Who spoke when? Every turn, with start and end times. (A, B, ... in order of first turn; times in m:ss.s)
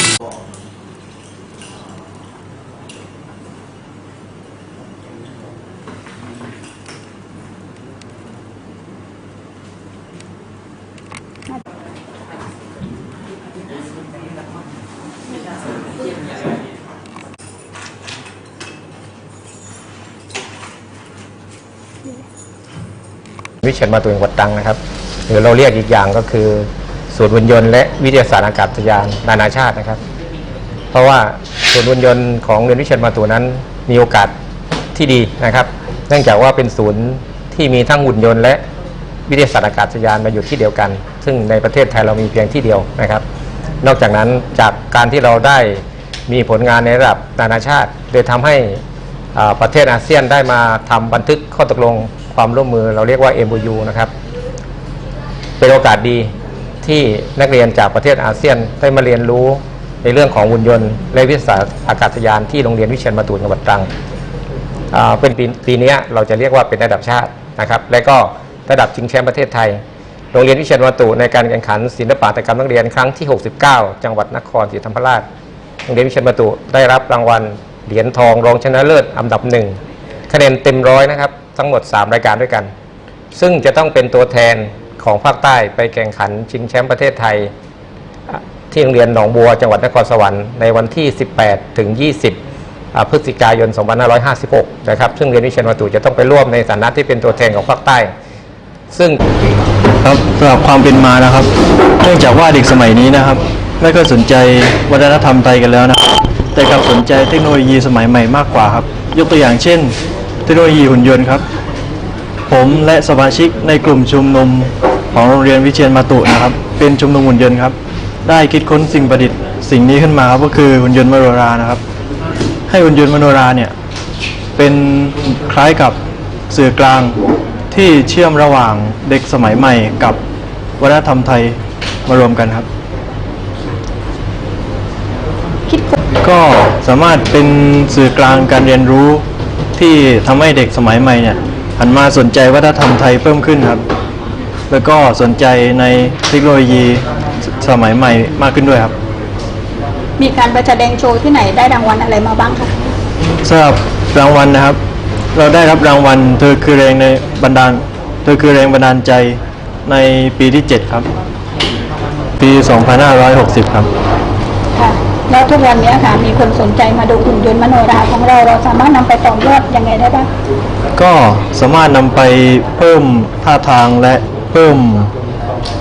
0:23.6-0:30.0 A
0:30.9-0:34.3 A
0:35.0-0:38.6 A
0:39.3-0:43.2 A
0:43.8-0:48.8 A
0:49.4-0:54.1 A
0:55.6-1:03.9 A
1:04.9-1:09.8 A
1:10.3-1:15.2 A
1:15.9-1:19.8 A
1:20.3-1:22.7 A
1:23.3-1:27.5 A
1:28.3-1:32.4 A
1:32.9-1:38.1 A
1:38.9-1:39.2 A
1:40.0-1:41.5 B
1:42.0-1:51.4 B
1:52.5-2:01.8 B
2:02.7-2:03.7 B
2:04.6-2:06.0 B
2:06.5-2:07.2 B
2:07.7-2:10.2 B
2:10.8-2:12.7 B
2:15.7-2:16.0 C
2:16.2-2:19.2 B
2:19.8-2:23.8 B
2:24.7-2:28.9 B
2:30.2-2:32.7 C
2:33.4-2:34.8 B
2:35.3-2:41.1 B
2:42.4-2:43.9 B
2:44.8-2:50.3 C
2:51.0-2:55.1 B